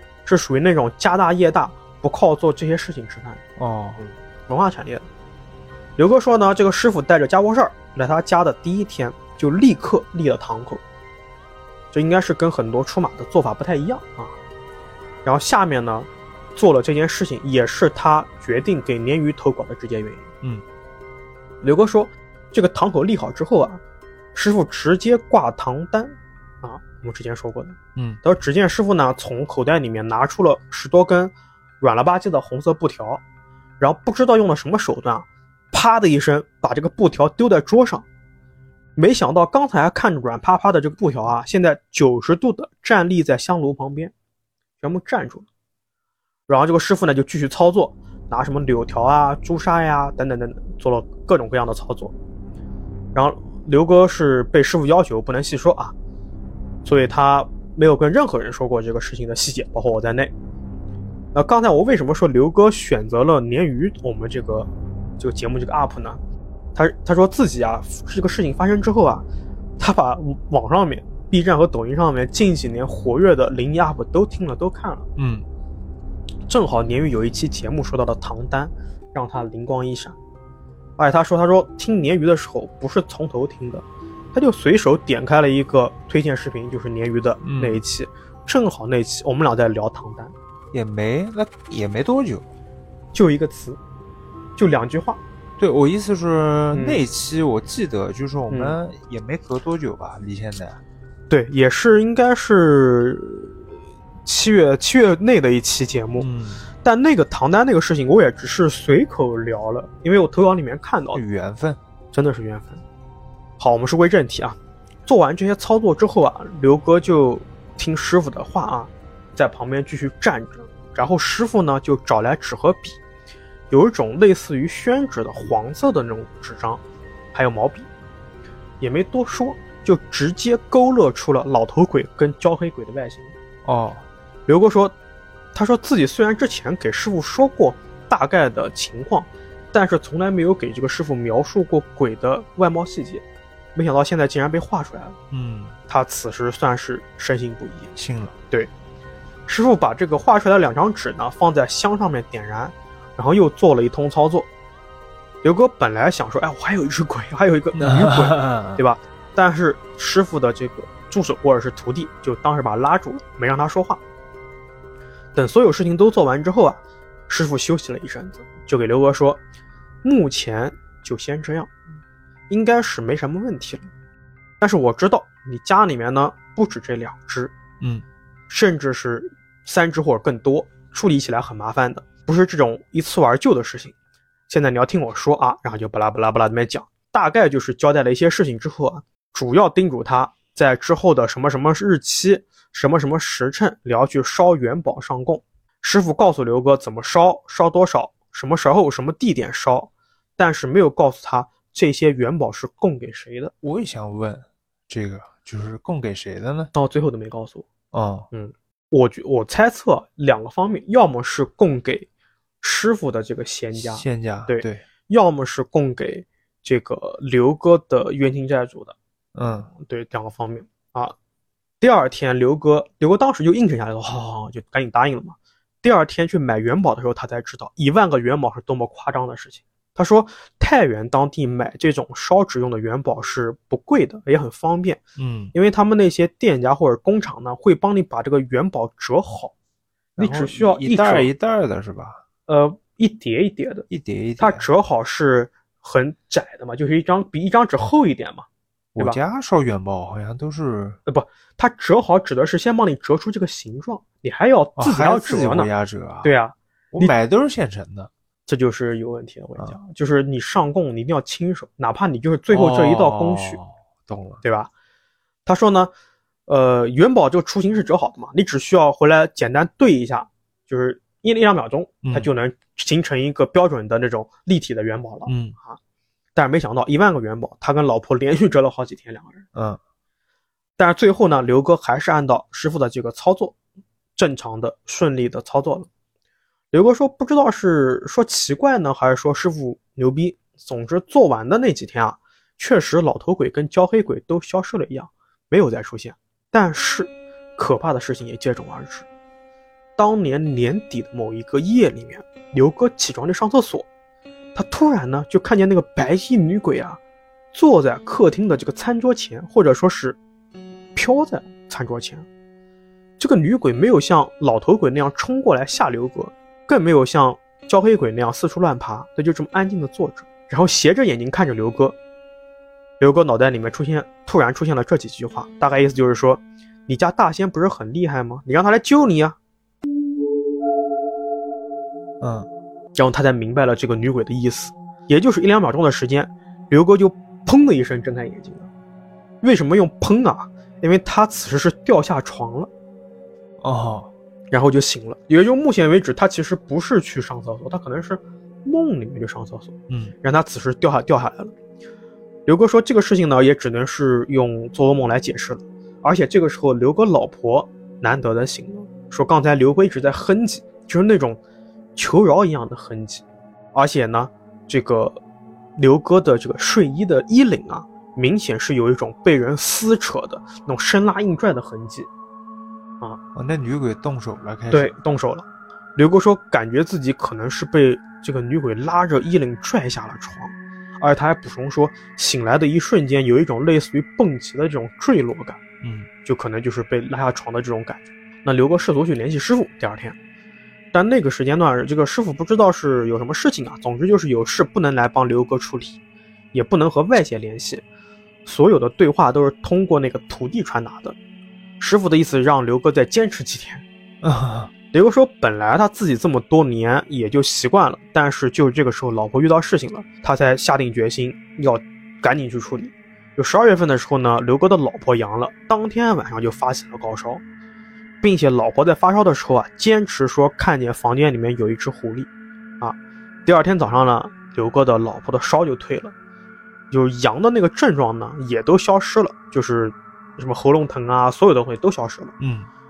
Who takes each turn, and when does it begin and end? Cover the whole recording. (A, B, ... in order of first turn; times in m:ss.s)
0:00.3-0:03.4 A
0:03.6-0:04.0 B
0:04.0-0:05.1 A
0:06.0-0:10.8 A
0:11.9-0:14.3 A
0:15.2-0:20.3 A
0:21.6-0:23.8 A
0:24.3-0:33.2 A
0:28.0-0:28.2 B
0:33.8-0:38.0 A
0:39.0-0:44.1 A
0:44.8-0:45.4 A
0:46.5-0:52.1 A
0:53.1-0:55.9 A
0:56.8-1:00.3 A
1:01.3-1:06.2 A
1:06.7-1:09.2 A
1:09.8-1:15.1 A
1:15.2-1:15.4 B
1:16.5-1:20.2 A
1:21.0-1:30.3 A
1:27.4-1:27.8 B
1:30.7-1:32.5 B
1:33.1-1:33.8 A
1:34.6-1:35.2 A
1:35.6-1:40.8 B
1:36.7-1:37.0 A
1:38.5-1:38.8 A
1:41.3-1:46.3 A
1:46.2-1:46.7 B
1:46.8-1:51.2 A
1:51.1-1:51.8 B
1:52.1-1:52.8 A
1:53.6-2:03.0 A
2:03.7-2:06.8 A
2:07.3-2:07.9 A
2:08.8-2:13.3 A
2:13.6-2:14.0 B
2:14.5-2:15.0 A
2:15.5-2:23.2 A
2:23.7-2:25.2 A
2:25.3-2:25.8 B
2:25.9-2:27.9 A
2:28.0-2:28.3 B
2:29.5-2:34.5 A
2:35.4-2:44.0 A
2:37.8-2:38.8 B
2:45.3-2:49.4 A
2:50.0-2:51.7 A
2:52.5-2:53.9 A
2:54.6-2:57.5 A
2:58.5-3:04.0 A
3:04.5-3:23.5 A
3:23.6-3:26.7 B
3:26.7-3:27.7 A
3:27.9-3:28.3 B
3:28.3-3:32.1 A
3:32.6-3:39.0 A
3:33.8-3:34.8 B
3:39.3-3:39.7 B
3:39.8-3:41.1 A
3:41.8-3:55.0 A
3:55.2-3:55.5 B
3:55.5-3:59.5 A
4:00.2-4:02.2 B
4:00.2-4:01.3 A
4:02.5-4:03.9 A
4:03.9-4:04.7 B
4:04.4-4:08.4 A
4:09.0-4:11.0 B
4:11.0-4:15.7 A
4:14.8-4:16.3 B
4:16.2-4:17.1 A
4:16.9-4:18.1 B
4:18.5-4:23.6 A
4:22.5-4:24.4 B
4:24.4-4:24.7 A
4:25.4-4:25.9 A
4:26.5-4:35.8 A
4:32.0-4:32.3 B
4:35.3-4:35.6 B
4:36.3-4:39.4 A
4:40.8-4:43.6 A
4:44.2-4:45.9 A
4:46.7-4:59.0 A
5:00.0-5:03.9 A
5:04.6-5:07.0 A
5:07.5-5:10.2 A
5:11.0-5:12.3 A
5:13.2-5:22.0 A
5:23.0-5:29.4 A
5:32.2-5:32.5 B
5:33.0-5:38.7 A
5:39.4-5:42.7 A
5:43.6-5:44.1 B
5:44.5-5:51.5 A
5:49.9-5:50.1 B
5:52.5-6:01.4 A
6:02.0-6:05.2 A
6:05.8-6:12.1 A
6:13.3-6:14.9 B
6:14.7-6:15.4 A
6:16.0-6:25.6 A
6:25.8-6:26.1 B
6:26.2-6:30.2 A
6:30.9-6:36.0 A
6:36.5-6:37.8 A
6:38.4-6:41.2 A
6:41.8-6:43.8 A
6:44.2-6:44.7 B
6:44.9-6:57.4 A
6:58.2-7:02.3 A
7:02.8-7:06.1 A
7:06.9-7:12.3 A
7:12.4-7:12.7 B